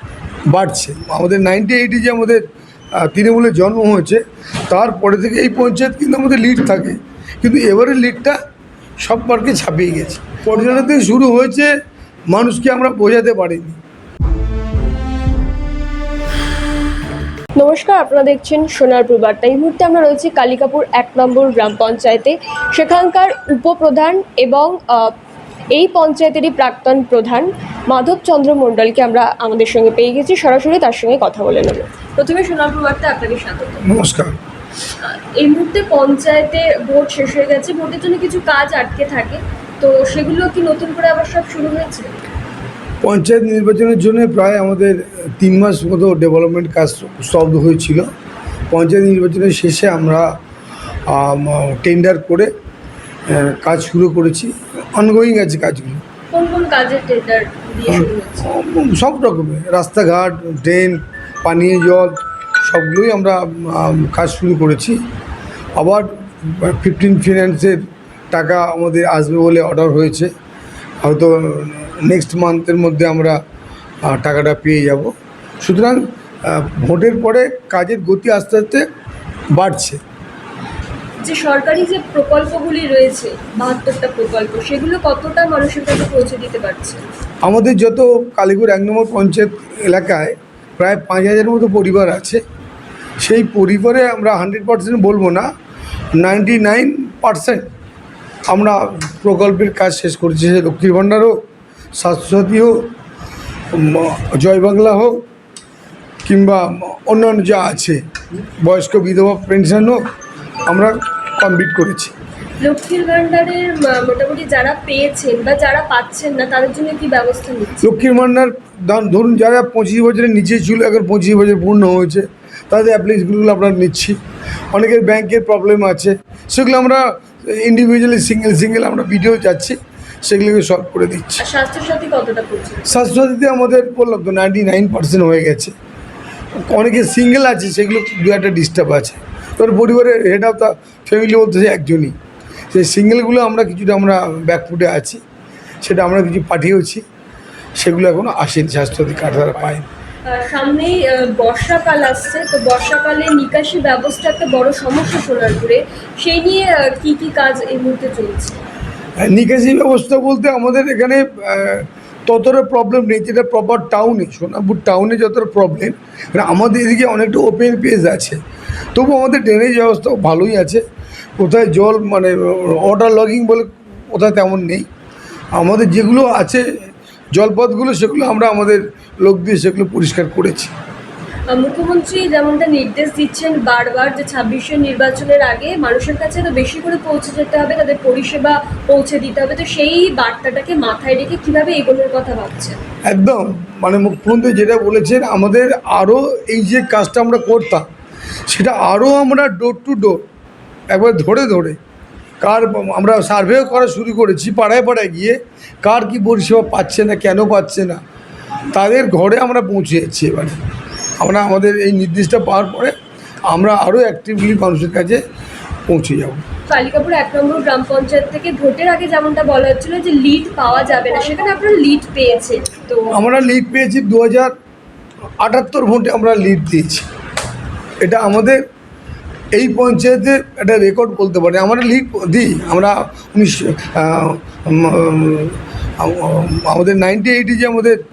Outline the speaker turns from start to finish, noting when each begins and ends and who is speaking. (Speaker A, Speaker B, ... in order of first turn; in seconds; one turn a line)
Speaker A: 0.5-2.4
Speaker A: 3.0-8.4
Speaker A: 9.0-11.7
Speaker A: 12.3-13.8
Speaker B: 17.6-25.1
Speaker B: 25.7-33.9
Speaker A: 33.8-34.4
Speaker B: 35.0-42.2
Speaker A: 43.0-48.1
Speaker A: 48.7-50.3
Speaker A: 51.1-52.5
Speaker A: 53.3-56.0
Speaker B: 56.3-58.5
Speaker A: 57.9-65.0
Speaker A: 65.8-67.8
Speaker A: 68.3-70.3
Speaker A: 71.0-73.4
Speaker A: 74.0-78.8
Speaker A: 79.5-80.0
Speaker B: 81.2-87.0
Speaker A: 87.4-92.4
Speaker A: 93.2-95.5
Speaker A: 96.2-97.7
Speaker A: 98.5-101.4
Speaker A: 102.0-102.9
Speaker A: 103.7-105.2
Speaker A: 106.2-110.0
Speaker A: 110.7-112.1
Speaker B: 112.6-117.9
Speaker A: 117.8-124.2
Speaker A: 124.7-131.4
Speaker B: 131.4-133.0
Speaker A: 132.9-135.7
Speaker A: 136.6-142.2
Speaker A: 142.7-145.2
Speaker A: 145.8-147.0
Speaker A: 147.8-149.9
Speaker B: 150.3-158.6
Speaker A: 159.2-168.4
Speaker A: 168.9-170.8
Speaker A: 171.4-174.9
Speaker A: 175.6-176.7
Speaker A: 177.3-180.7
Speaker B: 181.5-192.8
Speaker A: 193.1-197.9
Speaker A: 198.5-200.2
Speaker A: 200.9-201.8
Speaker A: 202.4-208.0
Speaker A: 208.7-210.6
Speaker A: 211.2-212.9
Speaker A: 213.5-215.2
Speaker A: 215.9-216.4
Speaker B: 216.7-223.2
Speaker A: 223.1-224.5
Speaker A: 225.4-227.1
Speaker A: 228.0-228.6
Speaker A: 229.5-238.0